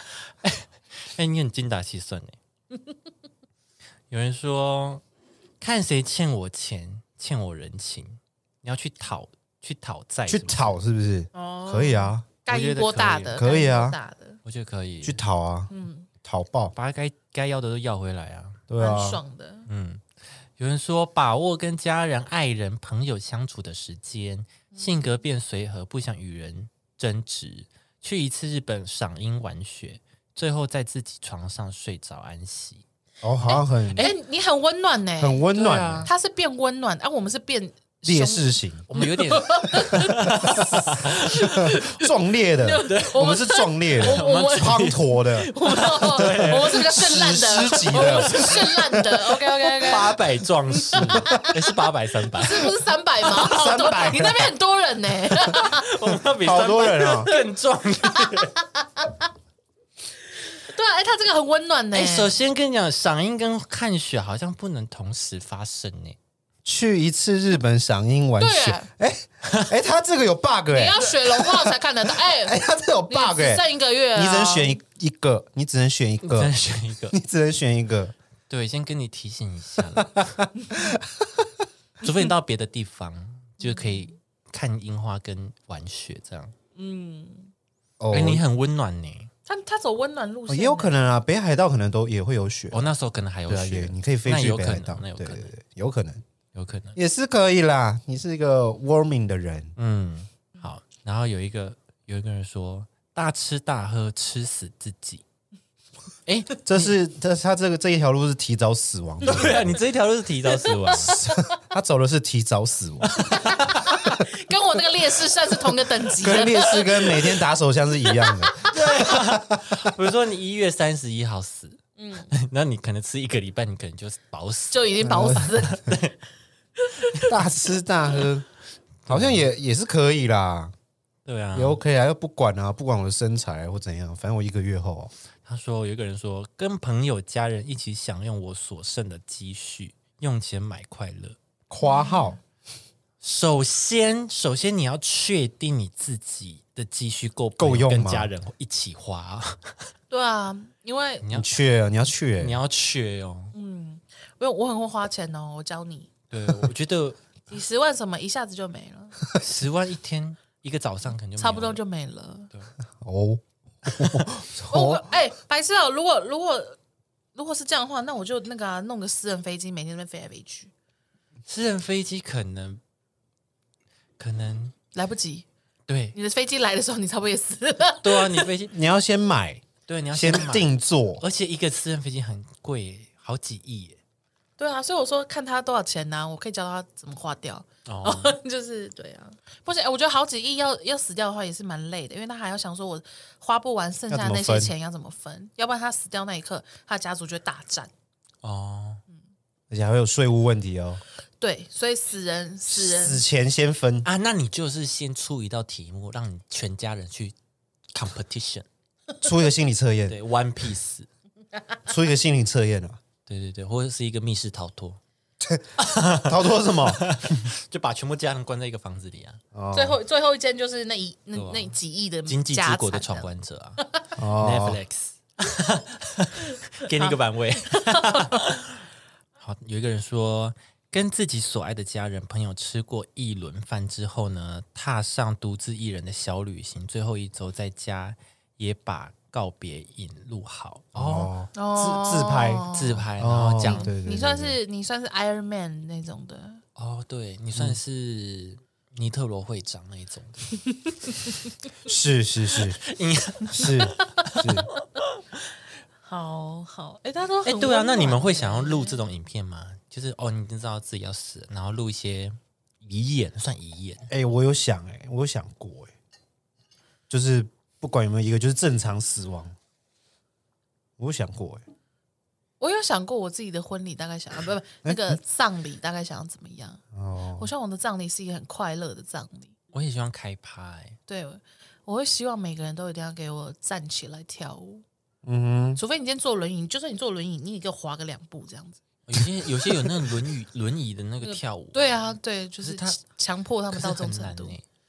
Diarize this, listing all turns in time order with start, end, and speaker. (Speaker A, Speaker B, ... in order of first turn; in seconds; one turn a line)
Speaker A: 0.4-2.4
Speaker A: 4.1-5.0
Speaker A: 5.6-10.8
Speaker B: 10.3-12.4
Speaker C: 11.3-14.4
Speaker A: 12.5-13.4
Speaker B: 13.3-14.0
Speaker A: 14.4-15.2
Speaker B: 15.0-15.7
Speaker C: 15.7-16.1
Speaker B: 16.2-16.7
Speaker A: 16.7-18.6
Speaker B: 18.7-19.2
Speaker C: 18.8-19.7
Speaker A: 19.7-20.0
Speaker A: 20.6-32.8
Speaker C: 24.7-25.1
Speaker B: 33.2-34.0
Speaker C: 33.5-35.4
Speaker B: 35.2-36.1
Speaker A: 35.5-36.1
Speaker C: 36.0-50.2
Speaker B: 38.0-38.8
Speaker A: 38.9-41.7
Speaker B: 41.5-45.5
Speaker A: 42.8-43.2
Speaker A: 44.0-46.8
Speaker B: 46.2-49.2
Speaker A: 47.7-48.6
Speaker A: 49.8-52.7
Speaker C: 50.8-51.5
Speaker B: 51.2-51.4
Speaker C: 52.4-55.9
Speaker B: 53.2-54.5
Speaker A: 55.4-58.5
Speaker B: 56.4-57.3
Speaker C: 57.1-57.4
Speaker C: 58.0-59.1
Speaker C: 60.4-62.3
Speaker A: 61.9-66.2
Speaker B: 66.6-76.5
Speaker C: 68.4-68.9
Speaker A: 69.4-69.7
Speaker C: 70.7-74.8
Speaker A: 76.2-77.1
Speaker B: 77.1-78.2
Speaker A: 78.5-80.3
Speaker B: 79.9-81.6
Speaker A: 82.0-86.5
Speaker C: 83.6-84.1
Speaker C: 86.8-87.5
Speaker B: 88.0-88.4
Speaker A: 88.1-89.3
Speaker C: 89.5-91.1
Speaker B: 90.5-92.8
Speaker A: 92.7-95.6
Speaker B: 93.5-96.2
Speaker A: 96.5-97.0
Speaker B: 97.0-99.7
Speaker A: 99.8-105.2
Speaker A: 106.2-106.9
Speaker B: 106.6-109.8
Speaker A: 109.2-111.2
Speaker C: 110.9-111.5
Speaker B: 111.0-113.5
Speaker A: 113.2-113.8
Speaker C: 113.2-117.4
Speaker B: 116.2-119.8
Speaker C: 118.0-118.8
Speaker A: 118.6-126.2
Speaker C: 122.0-122.3
Speaker C: 124.7-125.8
Speaker B: 125.0-125.7
Speaker C: 126.8-127.4
Speaker B: 127.2-128.5
Speaker A: 129.0-129.5
Speaker B: 129.1-130.7
Speaker A: 131.2-131.8
Speaker B: 131.5-135.1
Speaker A: 135.4-141.4
Speaker B: 141.7-142.4
Speaker C: 141.8-142.4
Speaker A: 143.2-149.8
Speaker B: 147.6-148.3
Speaker C: 150.1-151.3
Speaker A: 151.2-151.5
Speaker B: 151.3-152.6
Speaker A: 152.4-153.5
Speaker C: 153.5-156.1
Speaker A: 156.3-157.2
Speaker C: 157.5-159.2
Speaker A: 159.3-161.8
Speaker C: 161.4-162.5
Speaker B: 163.0-165.1
Speaker A: 163.9-164.3
Speaker C: 164.7-166.8
Speaker C: 167.3-170.7
Speaker A: 171.5-172.8
Speaker A: 174.2-174.7
Speaker C: 174.9-175.4
Speaker A: 175.9-176.2
Speaker C: 176.1-178.5
Speaker A: 178.0-178.7
Speaker B: 178.7-181.2
Speaker A: 179.9-184.0
Speaker C: 184.6-197.9
Speaker A: 187.8-188.4
Speaker B: 194.1-194.7
Speaker A: 198.4-199.0
Speaker B: 199.7-201.0
Speaker C: 201.4-203.2
Speaker B: 202.7-204.1
Speaker A: 204.0-207.3
Speaker A: 207.9-208.7
Speaker B: 209.2-210.2
Speaker A: 210.1-211.1
Speaker B: 211.9-213.0
Speaker A: 213.2-215.0
Speaker B: 215.4-217.4
Speaker A: 215.8-219.4
Speaker B: 219.5-220.0
Speaker C: 219.7-224.0
Speaker A: 221.3-221.7
Speaker A: 222.2-223.8
Speaker B: 224.2-224.8
Speaker A: 224.3-228.8
Speaker C: 227.7-228.4
Speaker A: 229.4-241.3
Speaker B: 240.9-244.6
Speaker C: 241.5-243.1
Speaker A: 242.7-243.9
Speaker C: 243.6-246.6
Speaker A: 246.8-250.4
Speaker B: 251.8-252.8
Speaker A: 252.5-254.5
Speaker B: 253.5-254.7
Speaker C: 256.0-259.0
Speaker A: 257.4-264.1
Speaker B: 264.1-265.9
Speaker B: 267.1-269.6
Speaker B: 271.0-271.6
Speaker C: 272.6-276.8
Speaker B: 274.8-275.2
Speaker B: 276.9-277.5
Speaker C: 277.4-279.5
Speaker A: 279.7-281.0
Speaker C: 281.1-284.8
Speaker B: 285.2-285.8
Speaker C: 285.8-288.8
Speaker A: 289.1-293.0
Speaker C: 291.2-294.6
Speaker A: 293.7-294.6